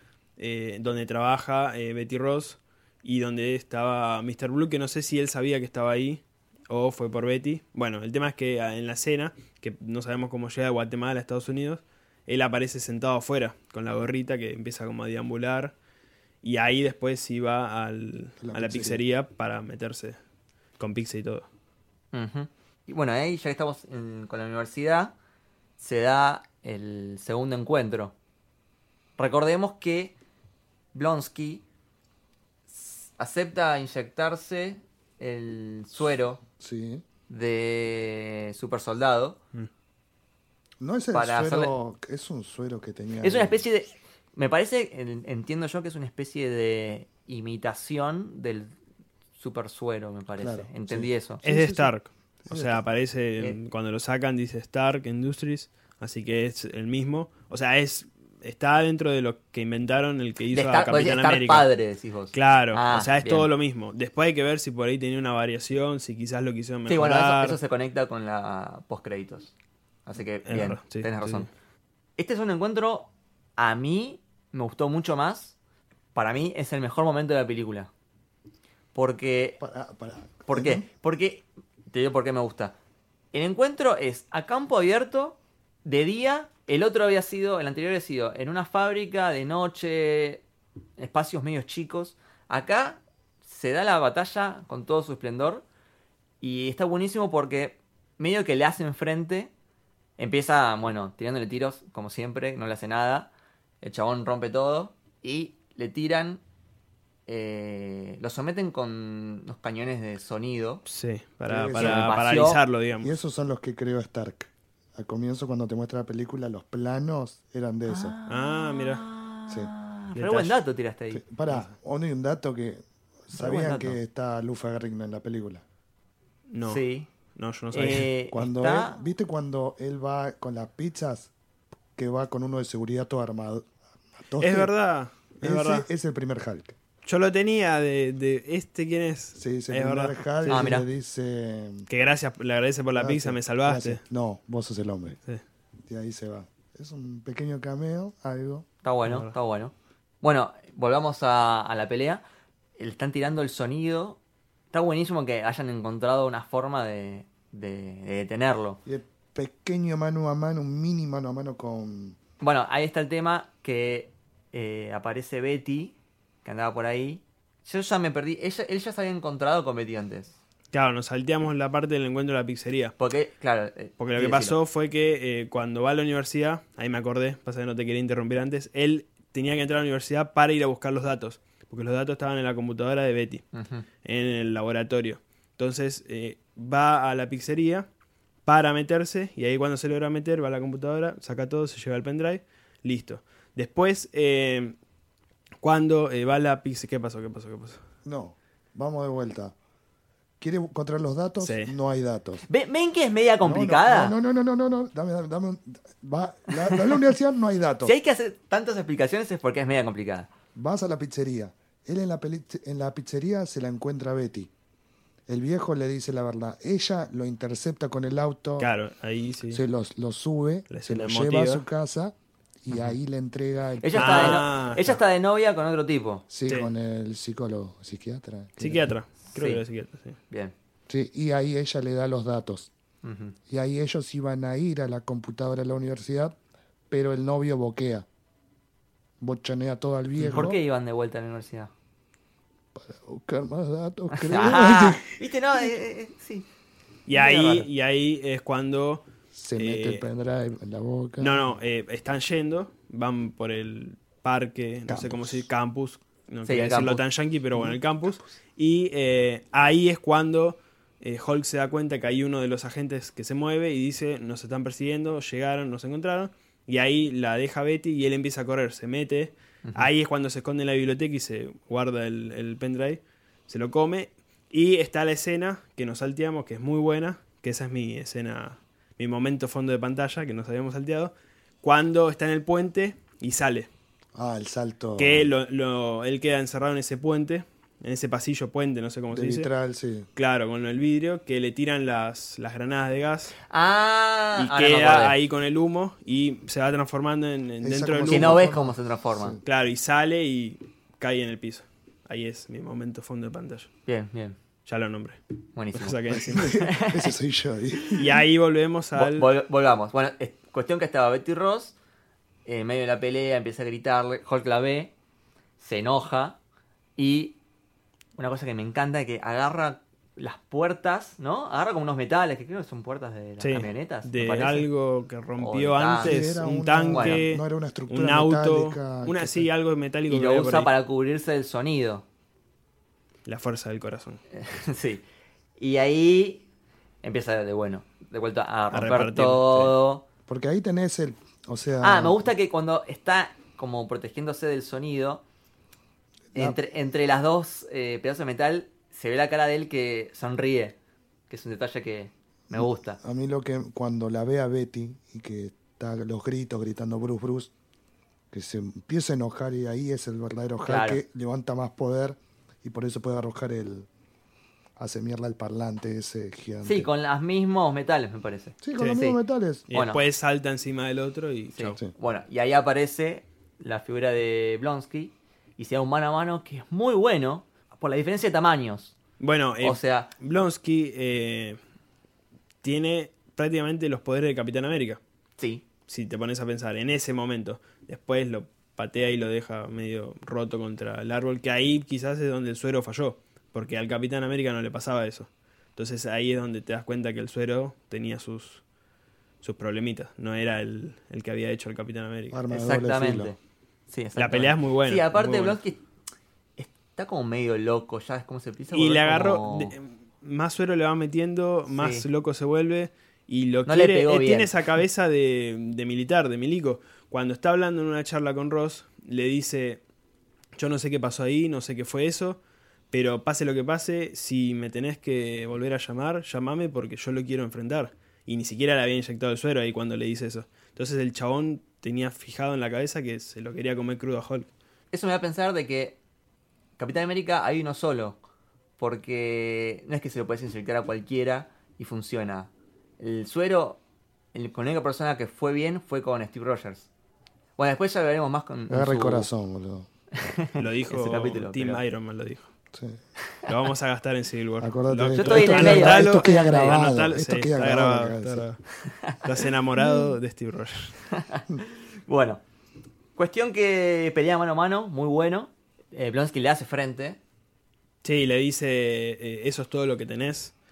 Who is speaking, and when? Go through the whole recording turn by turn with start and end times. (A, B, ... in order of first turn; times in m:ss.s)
0:00.4-0:15.7 A
0:16.4-0:20.2 A
0:18.4-0:19.0 B
0:20.8-0:21.5 A
0:22.1-0:25.1 C
0:25.8-0:28.1 C
0:29.2-0:30.2 C
0:30.9-0:31.6 C
0:32.7-0:36.4 C
0:36.6-0:37.0 B
0:37.3-0:39.4 C
0:40.8-0:43.6 B
0:41.1-0:41.7 C
0:43.2-0:48.7 C
0:49.4-0:51.4 C
0:50.4-0:51.9 B
0:51.4-1:01.7 A
0:52.4-0:52.8 B
1:00.5-1:03.5 C
1:02.3-1:07.6 A
1:06.9-1:09.5 C
1:10.1-1:11.5 C
1:10.4-1:11.5 A
1:12.2-1:15.6 C
1:16.1-1:17.9 C
1:18.9-1:19.6 C
1:19.6-1:20.8 B
1:20.5-1:22.8 C
1:23.3-1:30.4 C
1:31.0-1:35.6 C
1:36.4-1:39.5 C
1:40.2-1:43.3 C
1:43.8-1:46.4 C
1:47.3-1:50.8 C
1:50.9-1:53.1 A
1:51.5-1:52.2 B
1:51.7-1:52.6 C
1:53.0-1:58.2 B
1:57.9-2:01.2 C
1:58.3-1:59.0 A
2:00.2-2:00.6 A
2:01.1-2:05.6 B
2:03.3-2:04.0 C
2:06.5-2:06.8 A
2:06.6-2:07.1 C
2:07.4-2:08.1 A
2:07.7-2:09.0 C
2:08.3-2:11.3 B
2:12.0-2:14.7 B
2:14.4-2:15.9 A
2:15.4-2:16.8 B
2:17.0-2:20.8 A
2:19.4-2:21.9 B
2:20.5-2:20.9 C
2:21.9-2:24.0 A
2:23.0-2:25.2 B
2:25.9-2:28.7 B
2:28.8-2:32.2 C
2:29.0-2:29.3 A
2:32.8-2:34.2 C
2:34.7-2:38.8 C
2:38.9-2:42.2 B
2:42.4-2:50.4 C
2:50.7-2:53.0 A
2:53.0-2:54.6 C
2:54.0-3:03.4 A
3:03.5-3:03.8 C
3:04.0-3:07.9 A
3:08.4-3:14.8 A
3:15.6-3:17.8 A
3:18.0-3:19.6 B
3:20.4-3:22.4 B
3:21.4-3:21.7 A
3:22.5-3:24.2 C
3:23.4-3:27.9 B
3:26.5-3:27.0 C
3:27.8-3:30.3 C
3:30.6-3:34.5 B
3:35.3-3:38.7 B
3:38.6-3:39.6 A
3:39.5-3:42.1 B
3:40.7-3:41.6 A
3:42.6-3:44.9 B
3:43.8-3:46.2 C
3:43.9-3:44.9 A
3:46.3-3:48.8 B
3:48.6-3:50.2 A
3:49.3-3:49.6 C
3:50.9-3:52.7 B
3:53.0-3:53.4 C
3:53.5-3:56.4 B
3:56.9-3:58.1 B
3:59.2-4:00.6 B
4:00.2-4:00.5 A
4:00.3-4:01.7 C
4:02.8-4:05.2 B
4:04.1-4:06.5 C
4:07.1-4:10.1 A
4:07.1-4:07.7 C
4:09.3-4:11.4 B
4:11.2-4:43.7 A
4:14.9-4:15.5 B
4:16.5-4:17.0 C
4:29.6-4:29.9 C
4:44.2-4:45.3 B
4:45.0-4:49.5 A
4:49.1-4:50.1 B
4:50.2-4:53.4 A
4:53.5-4:55.2 C
4:54.4-4:58.4 A
4:57.6-4:59.4 B
4:58.0-4:59.4 C
4:59.4-5:03.7 A
5:03.9-5:04.4 C
5:04.7-5:05.2 A
5:05.6-5:07.1 C
5:05.7-5:06.7 A
5:06.1-5:08.2 B
5:07.9-5:09.3 A
5:09.0-5:11.8 C
5:12.5-5:14.9 C
5:15.6-5:16.4 C
5:17.0-5:17.4 C
5:18.2-5:24.7 C
5:23.4-5:30.7 A
5:25.4-5:26.2 C
5:26.0-5:29.5 B
5:26.9-5:27.3 C
5:30.1-5:32.0 C
5:33.3-5:34.2 A
5:34.3-5:35.0 C
5:35.6-5:36.4 C
5:37.0-5:40.0 C
5:38.7-5:39.7 A
5:40.3-5:42.2 B
5:41.8-5:45.2 C
5:46.3-5:50.8 C
5:51.3-5:53.0 C
5:52.5-5:57.5 B
5:58.3-6:03.9 B
6:00.7-6:01.0 C
6:04.8-6:06.9 B
6:06.6-6:09.2 C
6:08.6-6:09.7 B
6:09.7-6:11.8 A
6:09.7-6:10.0 C
6:11.5-6:19.0 C
6:19.2-6:21.6 A
6:19.6-6:20.1 C
6:22.6-6:25.0 A
6:25.4-6:25.6 C
6:25.9-6:38.6 A
6:39.4-6:42.4 A
6:42.3-6:43.3 B
6:42.5-6:43.4 C
6:43.9-6:45.8 C
6:44.2-6:45.6 A
6:46.6-6:49.8 C
6:48.7-6:59.8 A
6:51.7-6:52.1 C
6:53.7-6:54.6 C
7:00.6-7:02.4 A
7:02.9-7:14.5 A
7:14.9-7:16.0 C
7:16.8-7:18.2 C
7:18.8-7:23.8 C
7:24.3-7:26.9 C
7:27.6-7:29.3 C
7:28.7-7:29.9 B
7:30.2-7:31.8 C
7:30.6-7:32.5 A
7:32.7-7:33.0 B
7:33.5-7:41.0 A
7:34.6-7:38.5 B
7:35.2-7:36.8 C
7:38.9-7:39.2 C
7:39.8-7:40.1 B
7:41.1-7:42.4 C
7:43.2-7:47.2 C
7:48.0-7:50.5 A